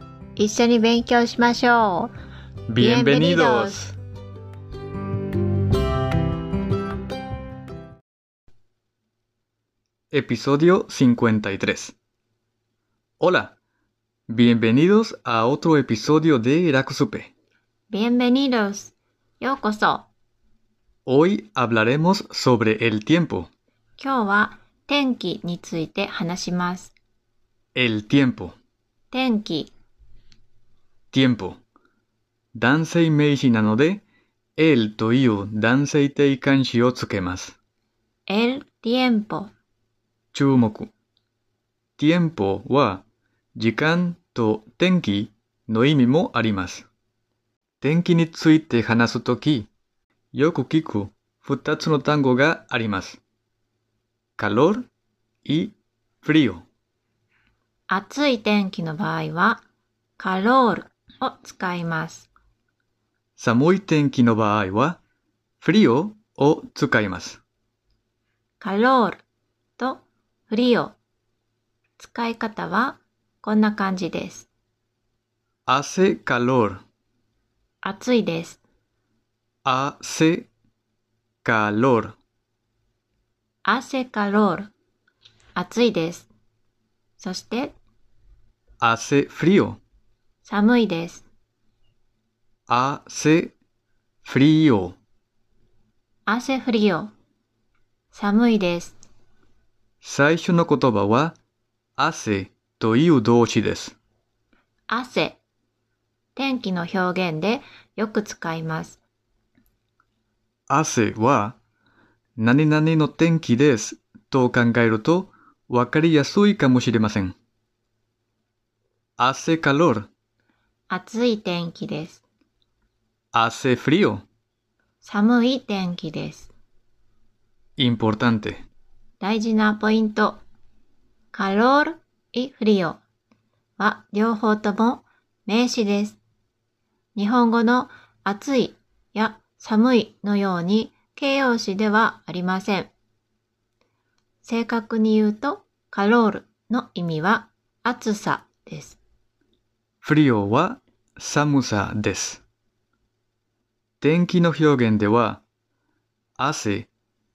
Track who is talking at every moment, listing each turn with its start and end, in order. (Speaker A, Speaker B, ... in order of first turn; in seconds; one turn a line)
Speaker A: 0.3-2.1
Speaker B: 2.7-3.9
Speaker A: 2.8-3.9
Speaker B: 10.1-11.9
Speaker B: 13.2-13.6
Speaker B: 14.3-17.3
Speaker A: 17.9-20.1
Speaker B: 21.1-23.5
Speaker A: 24.0-26.9
Speaker B: 27.7-28.6
Speaker A: 29.1-29.7
Speaker B: 31.1-31.6
Speaker B: 32.5-34.0
Speaker B: 34.6-37.5
Speaker A: 38.3-39.5
Speaker B: 40.3-40.9
Speaker B: 42.0-43.0
Speaker B: 43.5-46.9
Speaker B: 47.8-49.7
Speaker B: 50.3-53.2
Speaker B: 54.4-54.9
Speaker B: 55.4-56.6
Speaker A: 57.9-59.6
Speaker A: 60.2-62.3
Speaker B: 63.4-65.0
Speaker B: 65.6-67.4
Speaker A: 68.6-69.2
Speaker A: 69.8-71.0
Speaker A: 72.0-74.5
Speaker B: 75.7-76.8
Speaker A: 77.8-78.6
Speaker B: 79.6-80.5
Speaker B: 81.4-82.2
Speaker A: 83.6-84.7
Speaker A: 85.5-86.3
Speaker A: 87.2-87.8
Speaker B: 88.8-89.8
Speaker A: 90.4-91.2
Speaker B: 92.7-93.5
Speaker B: 94.2-95.0
Speaker A: 96.3-97.1
Speaker A: 98.1-99.0
Speaker B: 100.0-101.4
Speaker B: 102.0-104.0
Speaker A: 104.9-105.4
Speaker A: 106.3-109.0
Speaker B: 110.7-111.6
Speaker B: 112.4-117.3
Speaker B: 119.2-120.1
Speaker A: 120.9-122.2
Speaker B: 123.3-124.2
Speaker A: 125.0-126.5
Speaker B: 127.8-128.7
Speaker A: 129.2-130.4
Speaker A: 131.3-133.0
Speaker A: 133.8-136.2
Speaker A: 137.1-142.9
Speaker A: 144.4-149.0
Speaker B: 150.0-152.4
Speaker B: 154.0-155.4
Speaker B: 156.4-156.9